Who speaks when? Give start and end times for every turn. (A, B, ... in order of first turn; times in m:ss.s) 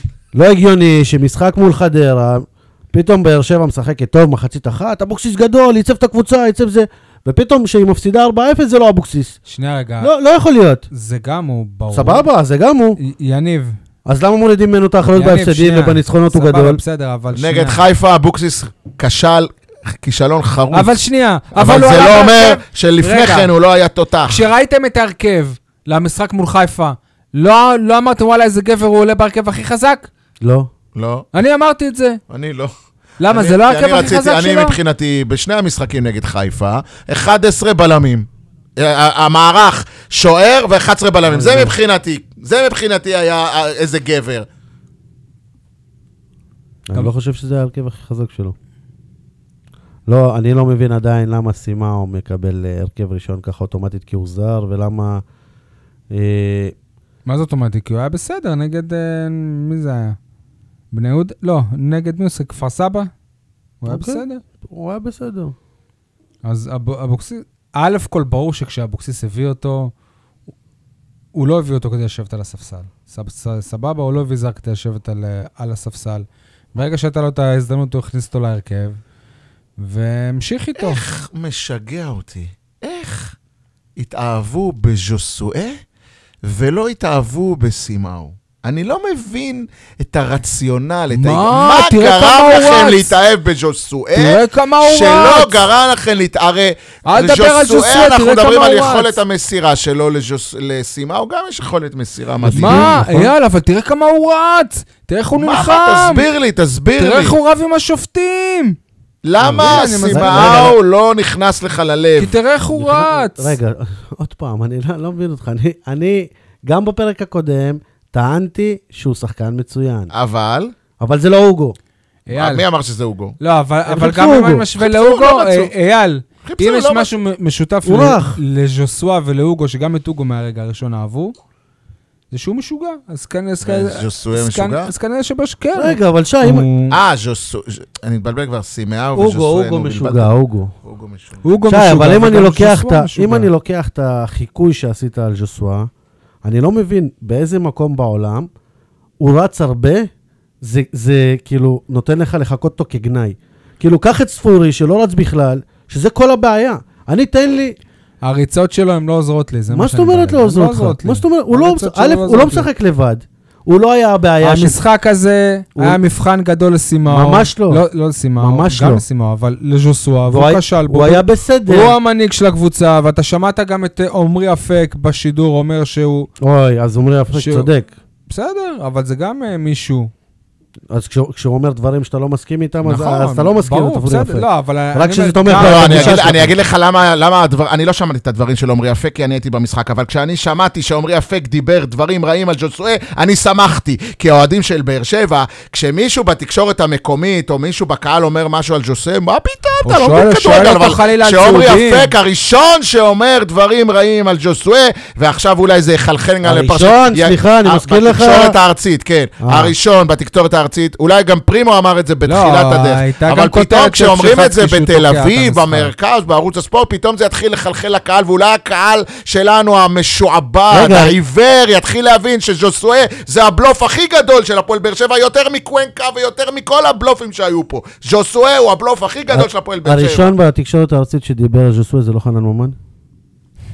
0:00.3-0:09.4 A
0:09.5-0:10.1 B
0:10.0-0:10.8 A
0:10.9-0:12.3 B
0:11.9-0:13.0 A
0:13.0-0:13.8 B
0:14.0-0:16.8 A
0:15.1-0:17.8 B
0:17.3-0:21.0 C
0:20.7-0:23.5 B
0:21.5-0:24.4 C
0:24.3-0:30.1 B
0:30.4-0:30.7 A
0:30.9-0:31.3 C
0:31.3-0:32.2 B
0:32.3-0:32.7 C
0:33.2-0:34.8 B
0:33.3-0:44.4 C
0:41.3-0:41.8 A
0:46.9-0:48.5 A
0:50.1-0:55.2 A
0:56.1-0:56.7 A
0:57.2-1:00.2 B
1:00.9-1:03.1 B
1:03.8-1:04.4 B
1:03.9-1:05.5 A
1:06.4-1:09.9 B
1:11.3-1:19.0 B
1:19.8-1:21.0 B
1:20.8-1:23.3 C
1:24.0-1:25.8 C
1:26.4-1:43.0 C
1:31.1-1:33.1 B
1:34.1-1:35.6 B
1:37.1-1:39.2 B
1:42.4-1:43.3 A
1:42.5-1:46.3 B
1:45.4-1:47.4 C
1:47.0-1:48.8 B
1:49.2-1:52.4 C
1:49.4-1:50.8 A
1:49.5-1:50.7 B
1:52.2-1:53.6 B
1:52.7-2:00.1 A
2:00.1-2:00.7 C
2:01.0-2:01.8 A
2:02.3-2:02.6 B
2:02.3-2:03.4 C
2:03.4-2:11.3 B
2:03.9-2:04.6 A
2:04.8-2:05.7 C
2:06.4-2:07.1 C
2:07.8-2:08.4 A
2:12.3-2:17.0 B
2:13.6-2:14.9 C
2:15.8-2:16.7 A
2:16.9-2:20.3 C
2:19.1-2:20.7 A
2:20.8-2:21.4 C
2:21.4-2:23.5 B
2:21.7-2:25.9 A
2:26.4-2:28.5 A
2:29.2-2:30.1 A
2:30.6-2:37.7 A
2:38.2-2:42.7 B
2:39.7-2:44.8 A
2:44.4-2:56.3 B
2:47.1-2:47.8 A
2:48.4-2:49.0 A
2:50.3-2:51.9 A
2:56.4-2:57.9 A
2:57.3-2:57.7 B
2:58.3-3:00.1 B
3:00.9-3:06.5 A
3:02.8-3:06.4 B
3:05.5-3:50.3 C
3:19.8-3:22.1 B
3:26.4-3:28.6 A
3:29.4-3:29.7 A
3:32.2-3:35.9 B
3:40.7-3:41.1 A
3:49.3-3:52.8 A